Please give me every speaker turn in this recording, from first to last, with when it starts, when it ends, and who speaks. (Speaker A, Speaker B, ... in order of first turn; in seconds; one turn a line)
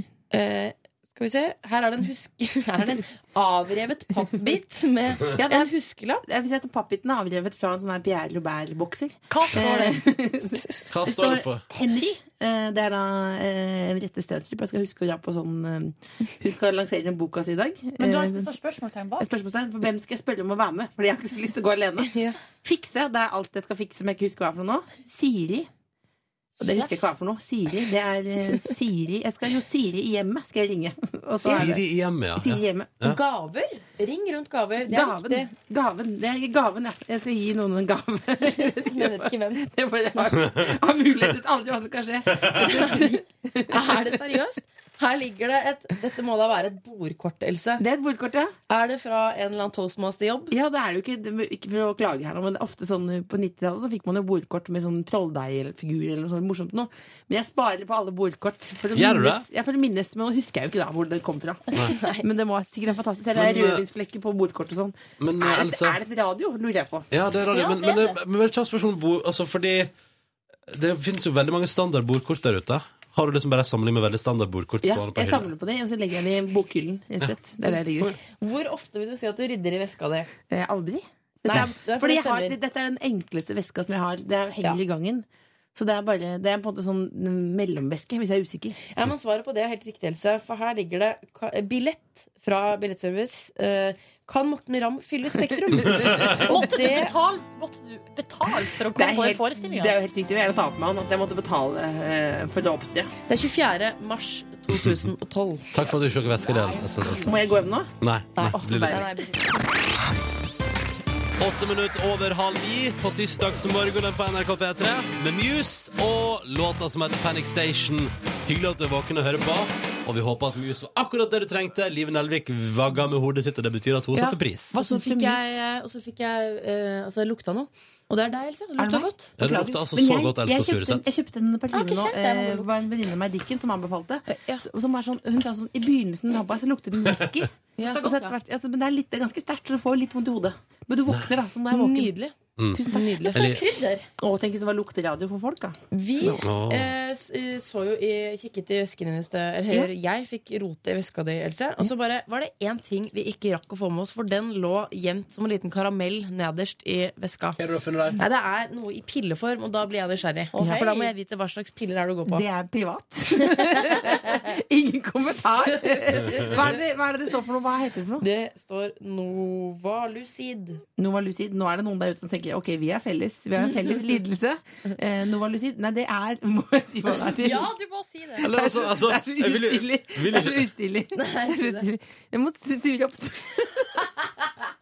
Speaker A: 0.3-6.2
Speaker B: 5.4-5.7
Speaker B: 6.2-18.5
Speaker C: 9.3-10.1
Speaker D: 10.9-11.6
Speaker C: 18.0-19.3
Speaker B: 19.2-25.7
Speaker A: 22.0-22.4
Speaker B: 26.6-31.9
Speaker D: 31.4-33.2
Speaker B: 32.4-33.0
Speaker A: 33.0-35.5
Speaker B: 34.8-44.2
Speaker A: 38.6-39.7
Speaker A: 42.5-47.8
Speaker B: 47.8-48.5
Speaker A: 48.7-50.5
Speaker B: 50.5-67.1
Speaker D: 59.0-59.5
Speaker A: 62.0-62.2
Speaker D: 63.4-63.8
Speaker D: 65.2-66.0
Speaker D: 67.1-69.9
Speaker C: 67.5-68.1
Speaker D: 70.7-75.5
Speaker B: 74.8-78.2
Speaker A: 78.2-80.3
Speaker B: 80.5-88.8
Speaker A: 81.4-82.6
Speaker A: 88.9-97.1
Speaker D: 96.0-96.2
Speaker C: 96.5-100.0
Speaker B: 99.0-103.1
Speaker A: 103.3-105.8
Speaker D: 104.7-105.1
Speaker D: 105.7-107.3
Speaker B: 107.2-107.9
Speaker D: 108.0-109.0
Speaker A: 108.4-109.7
Speaker B: 108.5-109.0
Speaker D: 111.4-124.8
Speaker A: 124.2-129.3
Speaker B: 124.7-125.4
Speaker B: 128.8-142.1
Speaker D: 129.4-131.1
Speaker C: 131.7-132.7
Speaker A: 134.3-134.7
Speaker A: 137.8-138.1
Speaker C: 137.8-138.3
Speaker D: 141.1-141.3
Speaker A: 141.7-143.4
Speaker B: 142.7-143.3
Speaker D: 143.3-143.6
Speaker C: 143.3-144.1
Speaker B: 144.2-146.4
Speaker A: 145.9-157.6
Speaker D: 146.4-146.9
Speaker D: 157.6-158.2
Speaker A: 158.2-162.4
Speaker C: 160.5-161.1
Speaker B: 162.3-168.2
Speaker A: 163.5-164.4
Speaker A: 165.7-166.8
Speaker A: 168.2-170.8
Speaker B: 171.0-177.7
Speaker C: 177.4-178.4
Speaker B: 178.4-184.1
Speaker D: 178.4-180.7
Speaker A: 181.1-181.9